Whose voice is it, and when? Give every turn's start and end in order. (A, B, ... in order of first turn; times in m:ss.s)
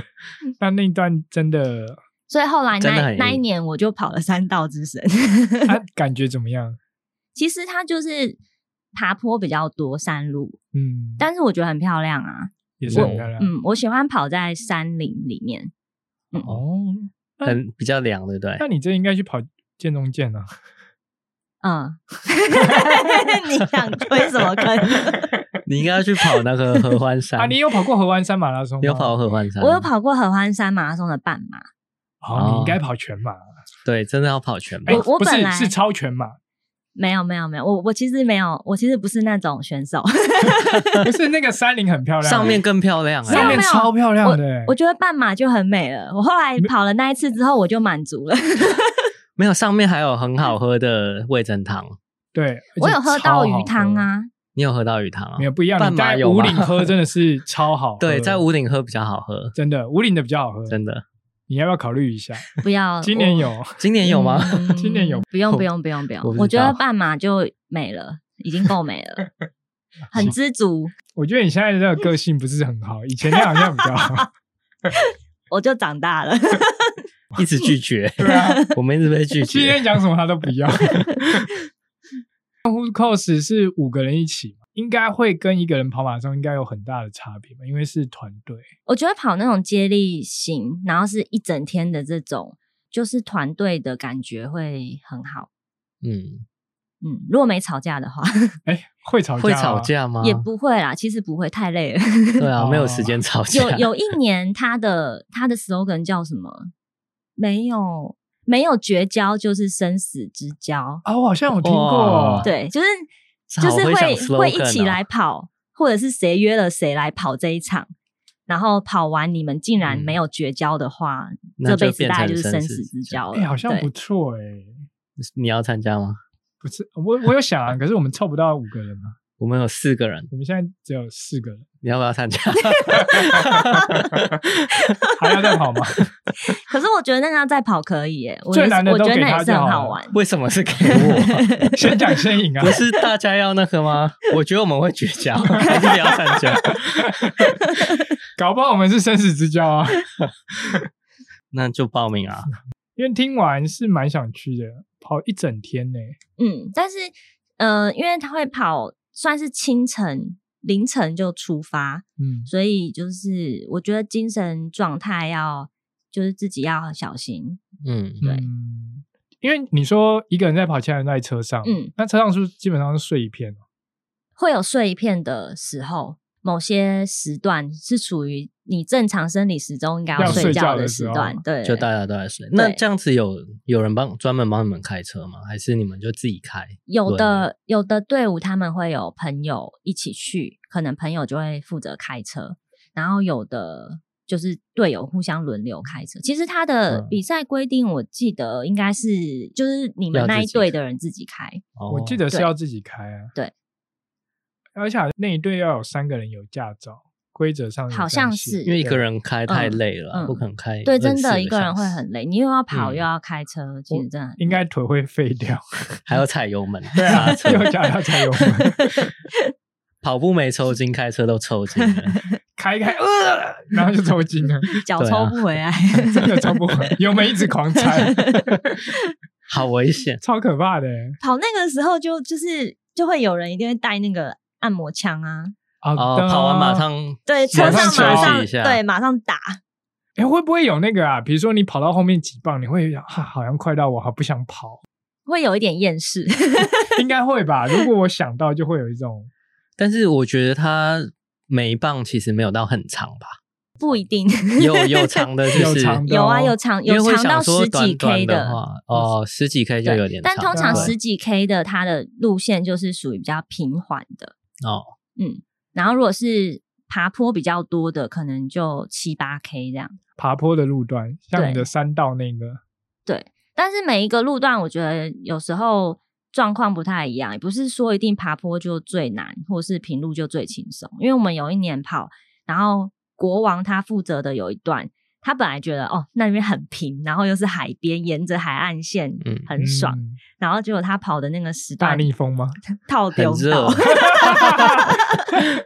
0:00.6-0:02.0 A
0:02.3-0:05.8 B
0:02.8-0:03.4 C
0:05.7-0:06.8 A
0:07.4-0:08.4 B
0:08.9-0:10.6 B
0:10.7-0:11.3 A
0:11.2-0:15.7 B
0:12.8-0:13.5 A
0:12.9-0:13.3 C
0:16.4-0:17.6 A
0:17.4-0:18.6 C
0:18.6-0:20.6 A
0:21.6-0:25.3 B
0:22.6-0:23.1 A
0:25.7-0:27.6 C
0:27.4-0:29.1 A
0:28.8-0:29.9 C
0:29.6-0:31.7 B
0:32.2-0:33.4 A
0:32.4-0:32.8 C
0:33.8-0:35.0 C
0:34.9-0:36.4 A
0:34.9-0:35.8 B
0:37.0-0:41.0 B
0:41.0-0:42.6 A
0:42.2-0:43.6 C
0:43.3-0:44.7 A
0:43.3-0:49.1 B
0:49.4-0:52.0 C
0:52.3-0:54.1 A
0:52.8-0:54.3 B
0:54.6-0:56.9 C
0:55.4-0:58.4 A
0:58.0-0:59.5 C
0:59.5-1:00.8 A
1:00.7-1:01.0 C
1:01.5-1:02.5 A
1:02.6-1:03.5 B
1:03.0-1:03.8 A
1:03.8-1:04.8 C
1:04.0-1:09.3 B
1:04.7-1:05.2 A
1:06.2-1:06.8 C
1:10.1-1:10.4 A
1:10.1-1:10.9 B
1:11.1-1:14.3 A
1:13.6-1:14.2 B
1:14.9-1:17.0 B
1:17.4-1:19.8 C
1:18.2-1:18.6 A
1:18.3-1:18.7 B
1:19.4-1:21.5 A
1:22.6-1:28.7 A
1:28.9-1:35.5 B
1:36.0-1:36.4 C
1:37.0-1:38.6 B
1:38.6-1:39.9 A
1:39.4-1:40.5 C
1:40.2-1:42.5 B
1:42.4-1:43.9 C
1:42.6-1:43.2 A
1:43.5-1:46.7 B
1:47.4-1:51.0 B
1:51.0-1:52.5 A
1:51.6-1:52.5 C
1:52.4-1:53.1 B
1:53.5-1:55.0 C
1:53.6-1:57.9 B
1:58.5-2:03.9 B
1:59.9-2:00.2 C
2:01.6-2:03.2 C
2:03.3-2:04.8 A
2:05.2-2:06.2 C
2:06.6-2:09.2 A
2:09.4-2:10.3 C
2:10.3-2:11.6 A
2:11.8-2:14.9 C
2:12.6-2:13.0 B
2:13.1-2:13.4 A
2:14.0-2:14.2 A
2:15.2-2:16.1 A
2:16.5-2:20.2 B
2:18.5-2:20.0 A
2:20.1-2:21.7 C
2:20.8-2:21.8 B
2:21.7-2:22.8 A
2:22.6-2:27.4 C
2:25.8-2:26.1 B
2:26.8-2:27.6 A
2:27.7-2:28.1 B
2:28.4-2:30.1 A
2:31.5-2:32.5 C
2:32.5-2:36.2 A
2:36.4-2:47.6 B
2:42.2-2:42.5 A
2:47.8-2:48.2 C
2:48.2-2:53.6 A
2:51.6-2:51.9 B
2:54.4-3:01.9 B
3:00.2-3:00.6 C
3:00.2-3:01.4 A
3:01.6-3:07.5 C
3:02.6-3:02.8 B
3:06.9-3:21.6 B
3:16.9-3:17.2 C
3:20.1-3:20.8 C
3:21.8-3:22.2 C
3:21.9-3:23.3 A
3:24.8-3:29.1 A
3:27.9-3:28.7 B
3:28.6-3:32.0 C
3:29.5-3:34.6 B
3:32.7-3:33.1 C
3:33.9-3:36.1 A
3:36.1-3:37.7 C
3:36.9-3:39.1 A
3:38.6-3:38.9 B
3:40.0-3:42.2 C
3:41.8-3:42.2 B
3:42.6-3:44.7 A
3:44.7-3:46.9 B
3:45.0-3:45.4 C
3:46.0-3:48.8 A
3:47.8-3:48.5 B
3:49.5-3:50.2 C
3:50.2-3:51.2 A
3:51.2-3:55.6 B
3:55.8-3:56.9 A
3:56.0-3:58.8 C
3:57.3-3:59.6 B
3:57.5-3:58.4 A
4:00.2-4:04.8 A
4:05.3-4:07.0 B
4:07.0-4:09.3 A
4:09.8-4:13.4 C
4:13.8-4:18.6 B
4:14.6-4:16.0 C
4:15.6-4:16.6 A
4:16.9-4:21.0 C
4:19.8-4:24.3 B
4:20.5-4:21.0 A
4:24.6-4:24.9 C
4:25.2-4:30.0 B
4:30.2-4:32.6 A
4:31.4-4:31.7 B
4:33.1-4:52.1 B
4:49.6-4:50.2 A
4:51.8-4:52.6 A
4:52.7-4:55.4 B
4:53.2-4:54.6 C
4:53.9-4:54.9 A